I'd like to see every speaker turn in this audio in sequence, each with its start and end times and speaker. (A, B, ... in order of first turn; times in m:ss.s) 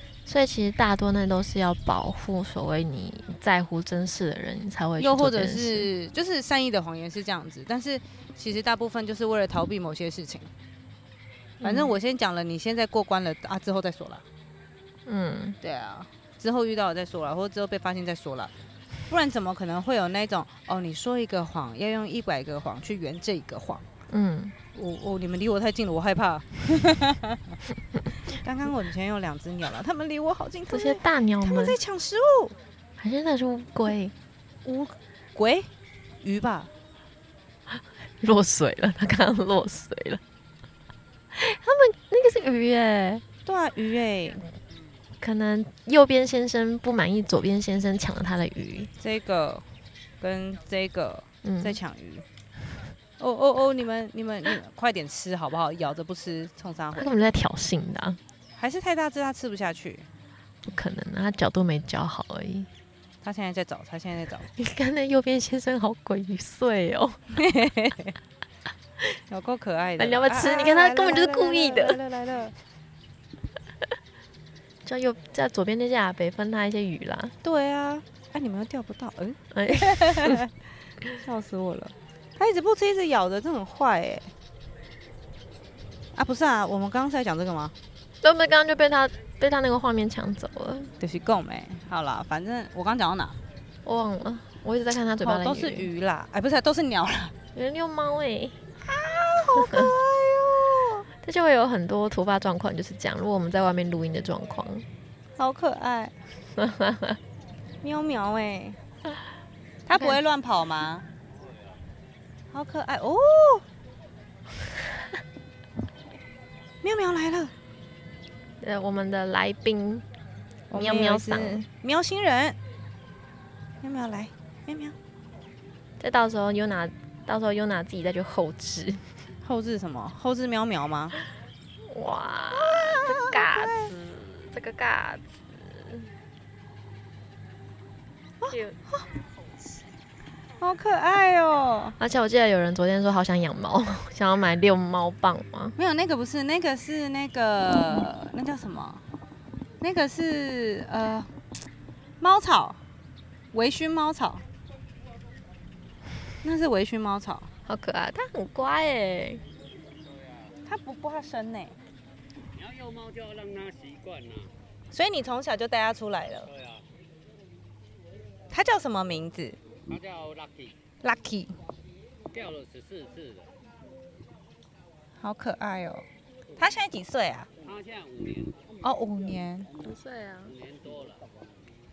0:00.2-0:05.9 A
0:05.0-0:10.5 B
0:11.6-0:11.9 A
0:11.6-0:14.2 B
0:15.0-0:15.6 A
0:15.6-0:18.5 B
0:19.1-0:23.9 B
0:24.1-0:24.5 A
0:24.7-0:27.6 B
0:28.2-0:32.6 B
0:30.7-0:31.8 A
0:33.0-0:34.1 A
0:34.6-0:35.7 B
0:36.2-0:36.7 B
0:37.7-0:40.2 A
0:41.3-0:43.2 A
0:43.4-0:44.4 B
0:45.2-0:48.9 A
0:49.0-0:49.6 B
0:50.2-0:52.2 B
0:51.4-0:51.8 A
0:53.2-0:57.1 B
0:57.0-0:58.2 A
0:58.6-1:00.1 B
1:00.6-1:02.7 A
1:03.2-1:04.5 B
1:04.6-1:07.2 A
1:07.3-1:08.2 B
1:09.3-1:12.5 B
1:10.0-1:12.0 A
1:14.8-1:17.4 A
1:17.4-1:20.5 B
1:19.5-1:20.4 A
1:21.1-1:24.3 B
1:26.1-1:27.7 B
1:28.2-1:30.9 A
1:31.0-1:33.4 B
1:33.8-1:35.9 A
1:35.2-1:37.3 B
1:37.5-1:38.6 A
1:38.8-1:41.0 B
1:39.6-1:39.9 A
1:41.2-1:44.9 A
1:45.4-1:46.2 B
1:46.6-1:47.2 A
1:47.8-1:48.8 B
1:49.9-1:51.0 B
1:51.4-1:51.7 C
1:52.5-1:53.6 B
1:56.8-1:57.5 B
1:58.6-2:00.0 A
2:00.7-2:02.6 B
2:00.7-2:01.7 A
2:03.8-2:05.0 B
2:06.0-2:09.1 A
2:09.4-2:11.2 B
2:11.8-2:16.1 A
2:12.5-2:13.9 B
2:18.4-2:19.0 B
2:18.5-2:18.8 A
2:20.6-2:22.0 B
2:22.0-2:25.7 A
2:25.8-2:29.0 B
2:29.8-2:31.3 B
2:32.2-2:32.8 B
2:33.5-2:34.4 B
2:36.4-2:37.5 B
2:37.6-2:39.4 A
2:40.0-2:40.6 C
2:40.6-2:41.8 B
2:42.5-2:44.5 C
2:44.9-2:46.5 B
2:46.5-2:46.9 C
2:48.5-2:49.6 B
2:49.9-2:50.8 C
2:51.0-2:51.6 B
2:52.3-2:53.5 C
2:55.2-2:56.0 B
2:56.6-2:57.5 B
2:57.6-2:58.7 C
2:58.8-2:59.7 B
2:59.8-3:00.5 A
3:00.4-3:01.3 C